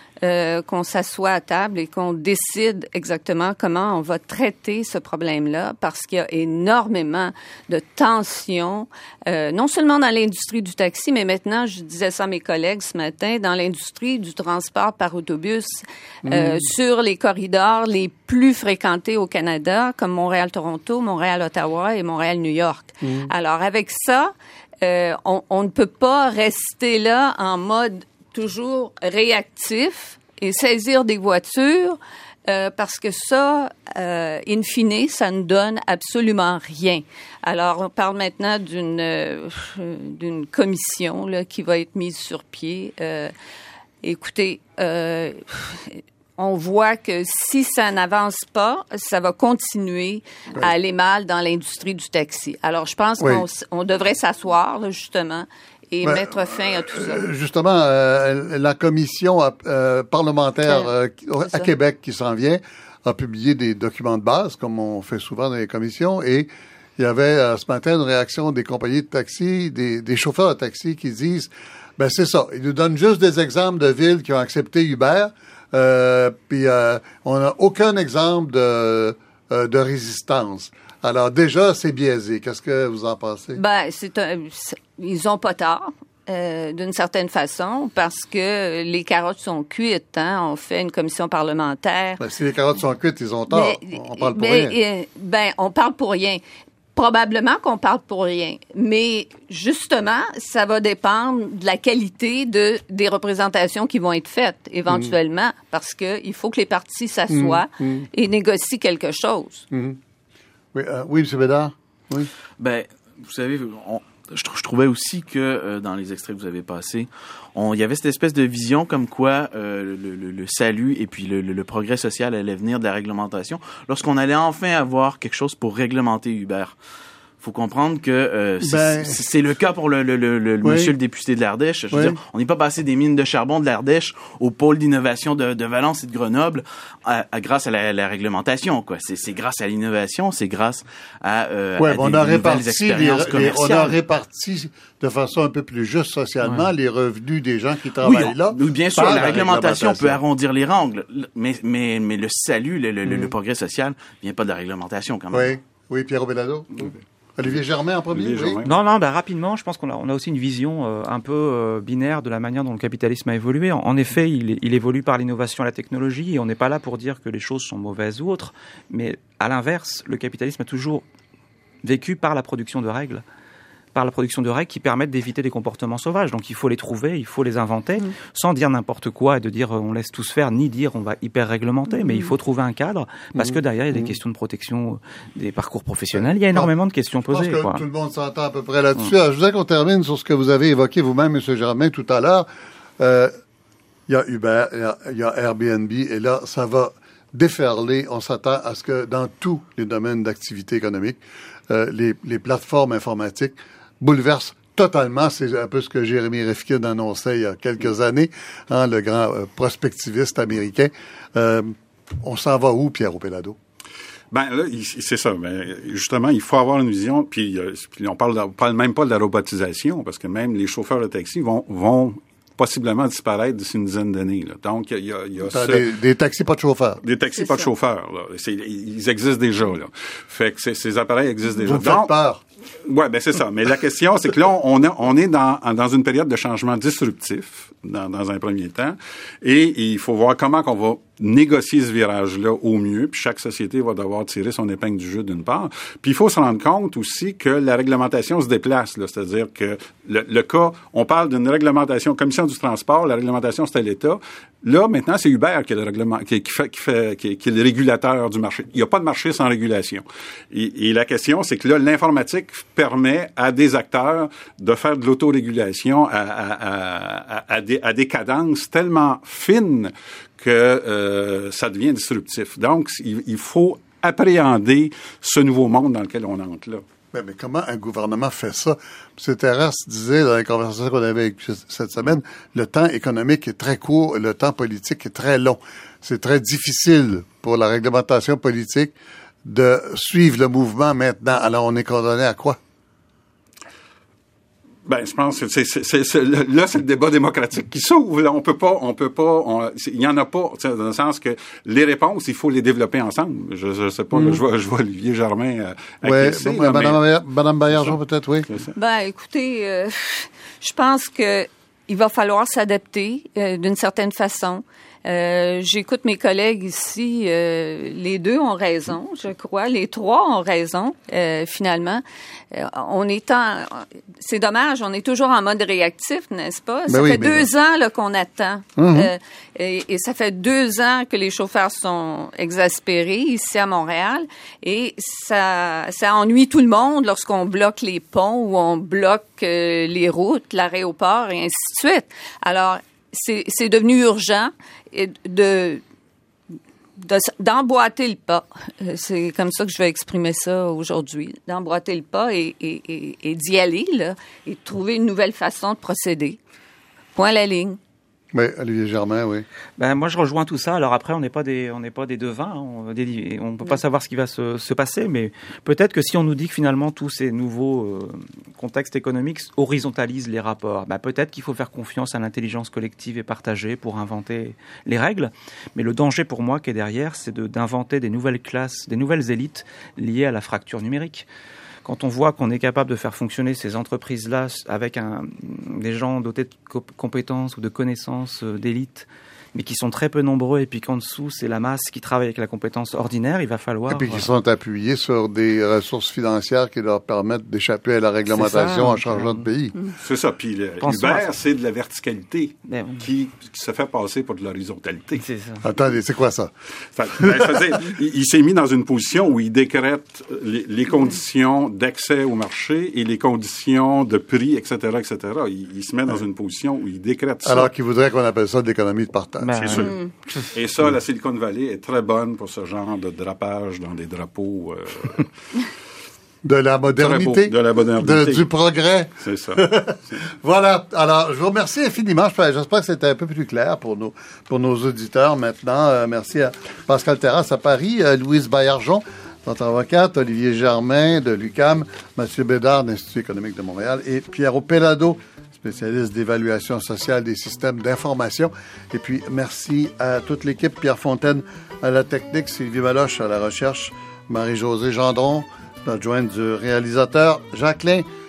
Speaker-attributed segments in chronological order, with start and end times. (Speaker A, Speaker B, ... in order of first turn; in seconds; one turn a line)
Speaker A: 0.2-43.3
Speaker B: 16.2-16.7
Speaker B: 23.0-23.3
Speaker A: 44.0-57.2
Speaker B: 53.2-53.5
Speaker B: 56.0-83.6
Speaker A: 83.5-92.2
Speaker B: 92.2-94.8
Speaker A: 93.5-96.4
Speaker A: 97.0-109.7
Speaker B: 104.9-105.2
Speaker B: 107.3-108.1
Speaker B: 109.7-110.0
Speaker B: 110.7-112.3
Speaker C: 112.6-126.8
Speaker C: 127.4-144.0
Speaker B: 128.6-129.2
Speaker B: 130.6-130.9
Speaker B: 131.9-132.2
Speaker B: 141.8-150.2
Speaker C: 148.0-155.5
Speaker B: 153.0-153.3
Speaker B: 155.3-158.6
Speaker D: 158.1-158.8
Speaker E: 158.7-171.0
Speaker E: 171.8-173.2
Speaker E: 173.9-187.8
Speaker B: 183.4-184.1
Speaker B: 186.2-186.7
Speaker B: 187.3-192.5
Speaker B: 193.0-193.3
Speaker B: 194.1-213.6
Speaker D: 214.3-225.8
Speaker B: 225.4-227.0
Speaker D: 227.0-232.1
Speaker A: 227.4-227.7
Speaker B: 231.6-232.4
Speaker D: 232.9-276.8
Speaker B: 277.1-292.6
Speaker D: 294.9-307.0
Speaker B: 304.1-304.4
Speaker B: 306.0-308.5
Speaker D: 308.5-308.7
Speaker A: 308.8-345.8
Speaker B: 326.9-327.5
Speaker B: 328.8-329.1
Speaker A: 347.0-356.4
Speaker A: 357.1-357.8
Speaker B: 358.3-359.5
Speaker E: 359.8-381.3
Speaker E: 381.9-394.3
Speaker B: 393.9-399.8
Speaker E: 398.3-399.5
Speaker D: 400.0-405.2
Speaker E: 400.8-401.3
Speaker E: 402.7-403.0
Speaker E: 405.2-405.6
Speaker B: 405.6-406.5
Speaker D: 406.9-417.7
Speaker B: 407.2-407.6
Speaker B: 417.4-419.9
Speaker E: 419.4-419.9
Speaker D: 419.6-425.3
Speaker B: 426.4-458.1
Speaker D: 427.0-428.4
Speaker D: 429.2-430.2